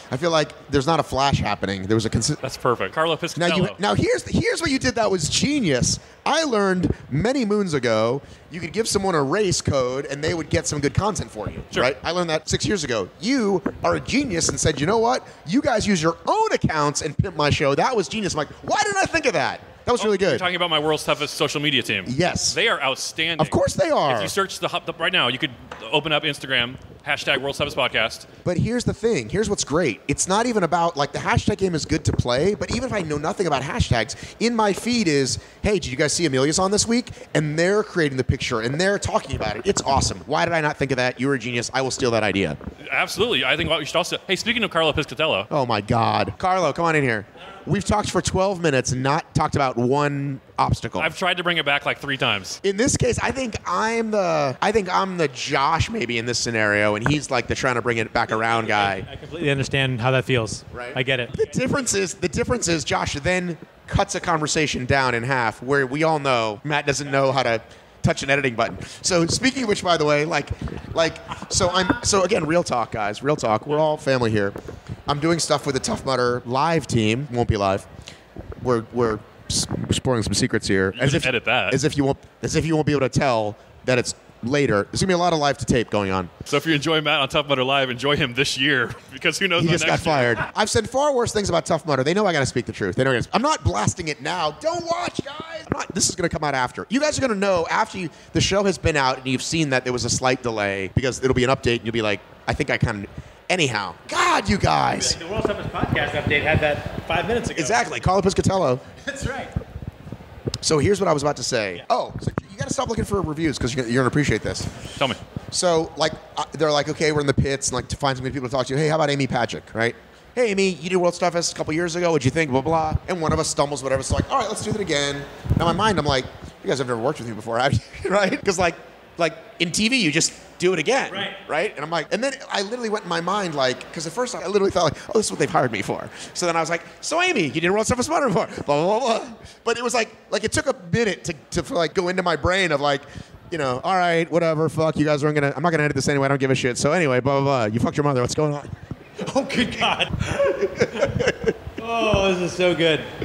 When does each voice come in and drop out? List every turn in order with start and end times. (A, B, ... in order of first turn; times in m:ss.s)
0:00.1-0:02.4 A
0:02.4-0:03.8 B
0:03.4-0:20.5 A
0:20.0-0:28.3 B
0:22.1-0:22.6 A
0:23.4-0:24.4 A
0:28.4-0:42.6 A
0:42.8-0:45.5 B
0:45.5-0:51.1 A
0:51.0-0:52.6 B
0:52.6-0:59.1 A
0:58.3-1:01.9 C
1:00.7-1:14.6 A
1:15.1-1:17.9 A
1:18.6-1:26.3 A
1:20.9-1:21.8 B
1:26.5-1:30.4 B
1:29.6-1:45.2 A
1:45.0-1:47.9 C
1:47.5-1:48.8 A
1:49.1-1:49.5 C
1:50.6-1:54.7 A
1:55.5-2:28.7 A
2:29.2-2:31.0 C
2:30.5-2:31.5 A
2:31.8-2:33.1 C